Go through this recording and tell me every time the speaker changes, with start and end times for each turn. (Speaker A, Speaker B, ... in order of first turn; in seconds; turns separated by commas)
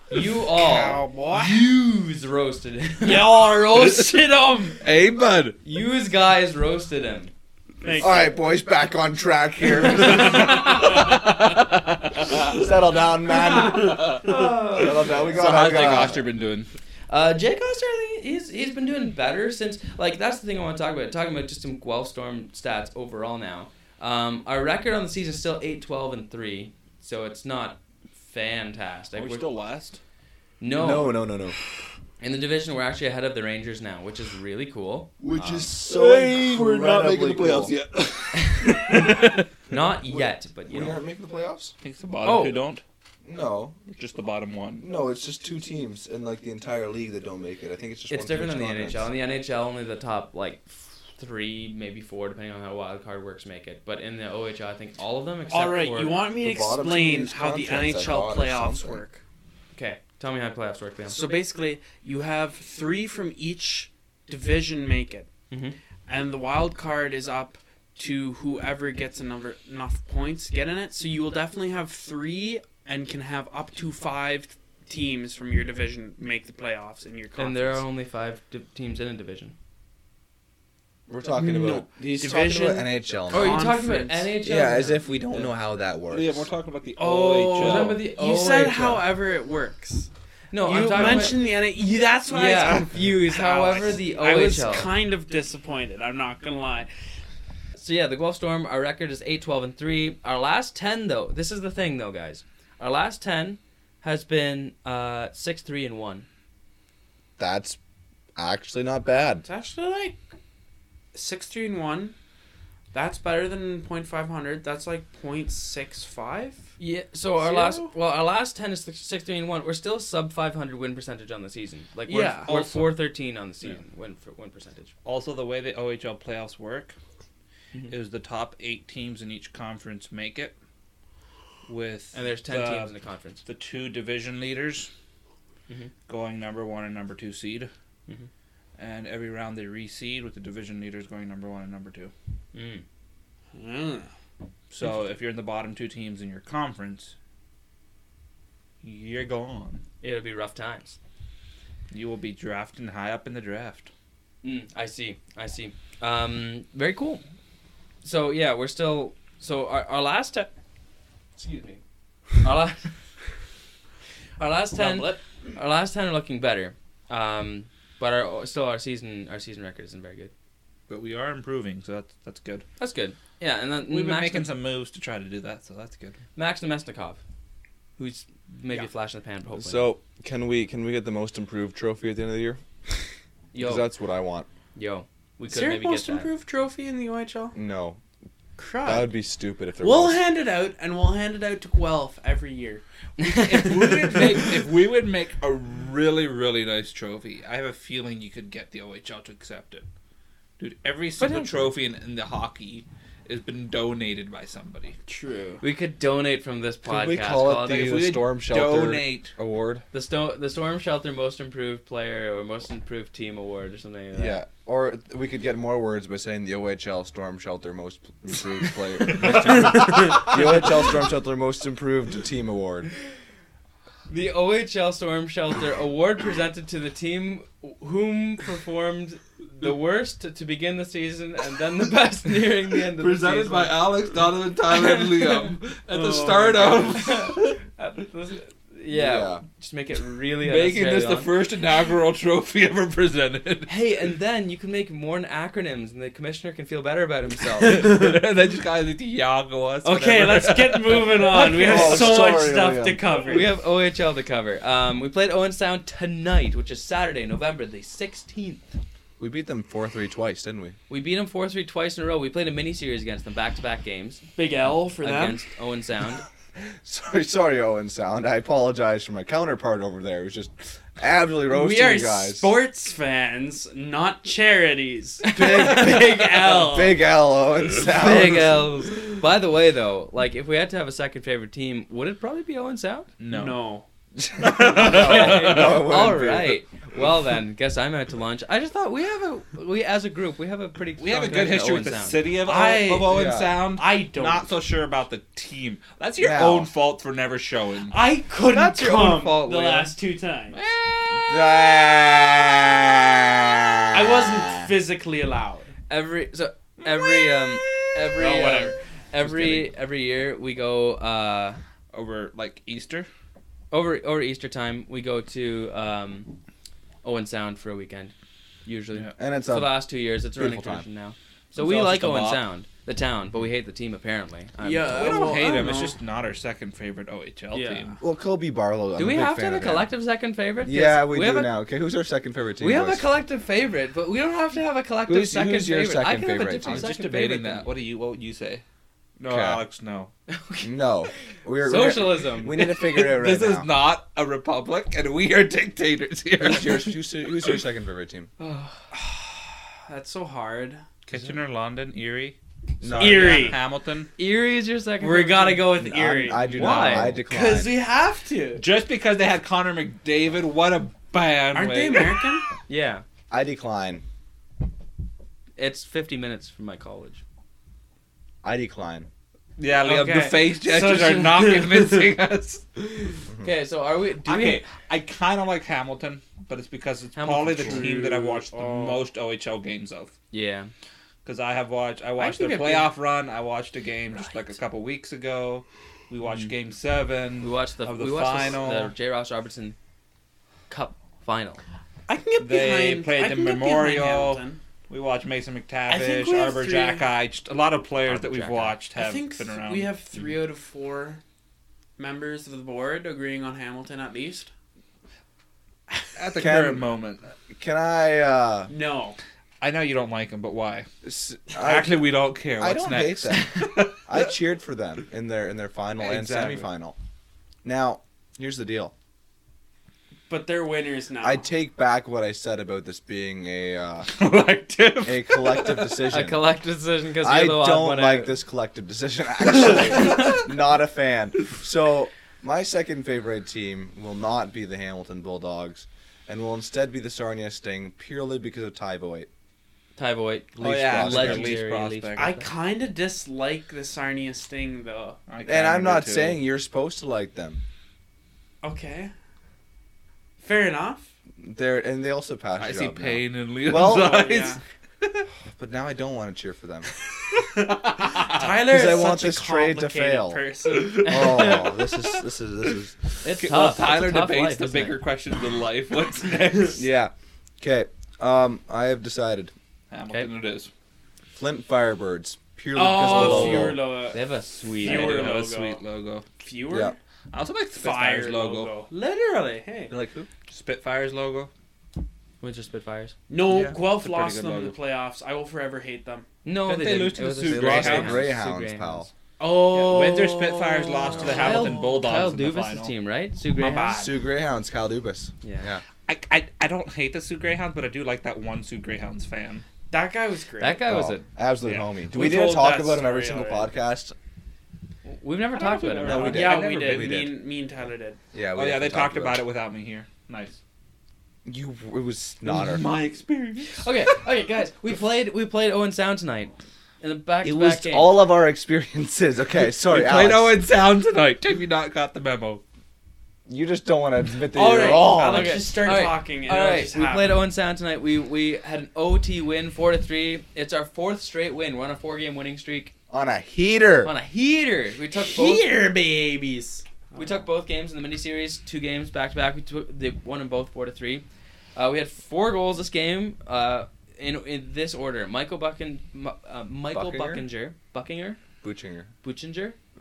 Speaker A: 0.1-3.4, Speaker B: 0.4-1.7, Speaker B: 3.0-4.8, Speaker C: 4.8-5.6, Speaker A: 5.6-7.3, Speaker B: 7.8-8.3, Speaker D: 8.0-11.0, Speaker C: 10.1-12.3, Speaker D: 12.3-16.3, Speaker A: 13.6-16.1, Speaker C: 13.8-14.2, Speaker C: 15.3-16.7, Speaker A: 17.1-29.4, Speaker C: 29.1-30.0, Speaker A: 30.6-31.1, Speaker D: 30.7-31.6, Speaker A: 32.2-35.7, Speaker D: 35.2-37.8, Speaker C: 35.8-39.4, Speaker A: 38.3-41.0, Speaker D: 39.7-41.7, Speaker C: 41.8-42.8, Speaker A: 42.2-42.6, Speaker D: 43.2-43.8, Speaker C: 43.9-44.8, Speaker D: 44.8-49.1, Speaker A: 48.1-56.2, Speaker B: 55.5-59.2, Speaker D: 56.4-59.0, Speaker A: 59.7-61.2, Speaker B: 61.0-65.3, Speaker A: 65.5-65.8, Speaker B: 66.1-77.8, Speaker A: 77.4-79.5, Speaker D: 81.1-83.7, Speaker B: 81.3-84.3, Speaker A: 83.3-85.1, Speaker D: 84.4-86.4, Speaker C: 85.3-85.5, Speaker C: 86.1-88.0, Speaker B: 87.0-96.9, Speaker A: 87.6-89.1, Speaker A: 90.5-91.4, Speaker A: 92.3-94.9, Speaker A: 97.7-106.3, Speaker D: 107.4-107.8, Speaker D: 108.3-109.4, Speaker B: 109.4-110.2, Speaker B: 111.1-112.1, Speaker B: 112.9-116.7, Speaker A: 116.8-124.9, Speaker B: 117.4-117.9, Speaker B: 122.1-122.5, Speaker C: 122.4-123.0, Speaker C: 125.0-127.0, Speaker C: 127.9-130.5, Speaker C: 131.7-132.9, Speaker A: 132.1-133.4, Speaker C: 133.4-134.9, Speaker C: 136.1-137.7, Speaker C: 138.8-142.1, Speaker A: 142.5-142.8, Speaker B: 143.5-144.1, Speaker C: 144.7-147.1, Speaker C: 148.8-149.8, Speaker A: 150.0-151.0, Speaker C: 151.9-153.9, Speaker A: 154.4-157.2, Speaker A: 158.0-160.5, Speaker A: 161.4-161.8, Speaker A: 162.4-162.9, Speaker A: 164.4-170.3, Speaker B: 164.8-165.2, Speaker C: 170.9-172.7, Speaker A: 172.8-174.5, Speaker C: 173.9-176.2, Speaker A: 176.3-177.2, Speaker A: 178.0-179.9, Speaker D: 179.5-184.5, Speaker A: 183.5-183.9, Speaker A: 184.7-186.3, Speaker B: 185.5-187.6, Speaker D: 187.5-188.0, Speaker B: 188.6-189.1, Speaker D: 188.8-190.2, Speaker B: 189.8-192.8, Speaker A: 193.2-194.2, Speaker C: 193.3-199.8, Speaker B: 193.8-194.2, Speaker C: 200.6-204.9, Speaker A: 201.2-201.7, Speaker B: 205.1-205.6, Speaker A: 205.6-208.0, Speaker D: 206.8-209.8, Speaker C: 207.6-209.3, Speaker A: 209.9-214.4, Speaker D: 214.1-222.9, Speaker A: 220.1-220.4, Speaker A: 224.1-233.9, Speaker C: 233.0-237.6, Speaker A: 234.7-235.5, Speaker B: 235.9-237.0, Speaker A: 236.7-241.3, Speaker D: 238.9-239.4, Speaker C: 240.4-243.7, Speaker A: 243.7-248.1, Speaker C: 247.6-251.5, Speaker B: 249.8-253.5, Speaker A: 251.2-252.2, Speaker D: 251.6-253.0, Speaker A: 253.2-258.7, Speaker D: 259.2-260.8, Speaker A: 260.9-264.3, Speaker B: 264.4-265.4, Speaker A: 265.0-266.2, Speaker D: 266.8-272.5, Speaker B: 271.5-277.0, Speaker A: 275.2-276.7, Speaker D: 275.3-278.7, Speaker A: 277.7-283.1, Speaker C: 283.2-283.6, Speaker B: 283.3-283.9, Speaker D: 284.2-286.6, Speaker C: 284.4-285.8, Speaker A: 284.7-292.2, Speaker C: 291.0-297.9, Speaker B: 292.4-294.5, Speaker D: 293.1-293.5, Speaker D: 296.2-296.7, Speaker B: 297.9-300.6, Speaker C: 298.5-299.9, Speaker C: 300.5-301.4, Speaker D: 301.1-304.6, Speaker B: 303.9-305.7, Speaker A: 305.9-311.6, Speaker C: 306.9-307.7, Speaker B: 308.1-308.8, Speaker C: 311.9-313.1, Speaker A: 313.7-316.3, Speaker A: 317.0-318.1, Speaker A: 318.6-325.5, Speaker D: 319.2-319.8, Speaker D: 320.4-320.9, Speaker C: 321.5-322.4, Speaker B: 324.6-325.9, Speaker C: 324.9-328.0, Speaker A: 327.5-327.8, Speaker B: 327.5-327.9, Speaker D: 328.0-329.9, Speaker A: 328.9-331.5, Speaker D: 330.6-333.0, Speaker A: 332.6-337.7, Speaker D: 335.1-336.9, Speaker C: 336.6-338.6, Speaker C: 339.2-340.1, Speaker D: 339.2-339.6, Speaker A: 340.3-340.7, Speaker D: 340.6-343.7, Speaker A: 341.6-342.6, Speaker C: 342.6-347.6, Speaker D: 346.4-348.3, Speaker A: 348.4-348.8, Speaker B: 348.9-350.8, Speaker C: 351.1-354.1, Speaker D: 352.8-353.5, Speaker B: 353.0-353.6, Speaker A: 354.2-357.2, Speaker B: 355.0-358.6, Speaker D: 355.8-357.7, Speaker C: 356.6-357.2, Speaker C: 358.6-362.2, Speaker B: 361.5-362.5, Speaker A: 362.7-363.0, Speaker D: 363.3-364.0, Speaker A: 365.6-367.2, Speaker D: 368.4-369.1, Speaker C: 369.6-372.8, Speaker B: 369.8-372.1, Speaker A: 373.4-374.6, Speaker C: 374.2-380.1, Speaker A: 377.1-377.9, Speaker B: 377.7-379.0, Speaker A: 380.3-380.7, Speaker C: 381.2-388.9, Speaker A: 382.2-382.9, Speaker A: 387.4-389.8, Speaker A: 390.7-391.6, Speaker B: 392.1-394.6, Speaker C: 392.4-399.9, Speaker B: 395.9-397.1, Speaker A: 398.1-398.8, Speaker B: 398.9-401.2, Speaker B: 402.0-404.5, Speaker C: 406.1-407.3, Speaker D: 406.4-406.9, Speaker D: 407.5-408.7, Speaker B: 408.7-409.2, Speaker C: 409.6-410.9, Speaker D: 411.0-412.0, Speaker C: 411.5-414.3, Speaker D: 412.6-416.9, Speaker C: 416.0-416.7, Speaker D: 417.6-418.9, Speaker B: 420.3-421.4, Speaker D: 421.2-424.1, Speaker C: 424.1-426.0, Speaker D: 425.0-426.4, Speaker A: 426.1-428.3, Speaker D: 427.2-439.3, Speaker A: 439.9-442.5, Speaker D: 440.6-441.6, Speaker C: 440.6-442.4, Speaker B: 442.1-445.2, Speaker C: 445.3-446.4, Speaker D: 445.4-447.6, Speaker B: 448.6-449.1, Speaker B: 450.4-451.1, Speaker D: 451.4-454.3, Speaker C: 452.6-455.2, Speaker B: 453.7-454.6, Speaker D: 455.5-456.9, Speaker B: 457.3-461.2, Speaker C: 458.2-458.4, Speaker D: 458.6-460.4, Speaker C: 460.7-462.2, Speaker D: 461.0-462.9, Speaker A: 461.1-461.5, Speaker A: 463.2-465.0, Speaker C: 463.4-466.8, Speaker D: 466.8-469.5, Speaker C: 469.9-470.7, Speaker D: 471.3-473.8, Speaker B: 472.7-474.2, Speaker A: 473.1-475.4, Speaker B: 474.8-475.8, Speaker C: 474.8-476.2, Speaker B: 476.4-476.9, Speaker D: 476.7-476.9, Speaker C: 477.3-478.7, Speaker B: 477.8-479.9, Speaker D: 479.9-480.3, Speaker C: 480.5-481.5, Speaker A: 482.4-483.1, Speaker B: 483.3-486.3, Speaker C: 483.7-484.7, Speaker A: 486.4-489.1, Speaker C: 486.6-488.3, Speaker D: 487.4-489.1, Speaker B: 489.4-491.9, Speaker C: 489.7-492.9, Speaker A: 491.1-494.0, Speaker B: 493.6-494.1, Speaker D: 493.9-495.8, Speaker A: 495.4-495.7, Speaker C: 496.1-499.6, Speaker B: 499.9-500.8, Speaker A: 500.6-501.2, Speaker D: 500.8-504.1, Speaker C: 501.6-501.9, Speaker B: 502.1-503.7, Speaker A: 505.0-506.5, Speaker C: 505.5-507.1, Speaker D: 506.0-507.4, Speaker B: 506.2-508.2, Speaker D: 508.3-509.4, Speaker C: 508.5-510.6, Speaker D: 511.4-512.8, Speaker C: 512.4-513.9, Speaker A: 513.7-518.1, Speaker D: 517.4-520.6, Speaker C: 519.7-522.6, Speaker D: 523.5-525.6, Speaker B: 524.5-527.4, Speaker A: 524.7-532.9, Speaker D: 533.1-534.1, Speaker A: 534.0-535.7, Speaker B: 535.2-537.4, Speaker A: 537.1-548.4, Speaker D: 546.9-547.4, Speaker D: 548.6-549.1, Speaker A: 549.2-549.8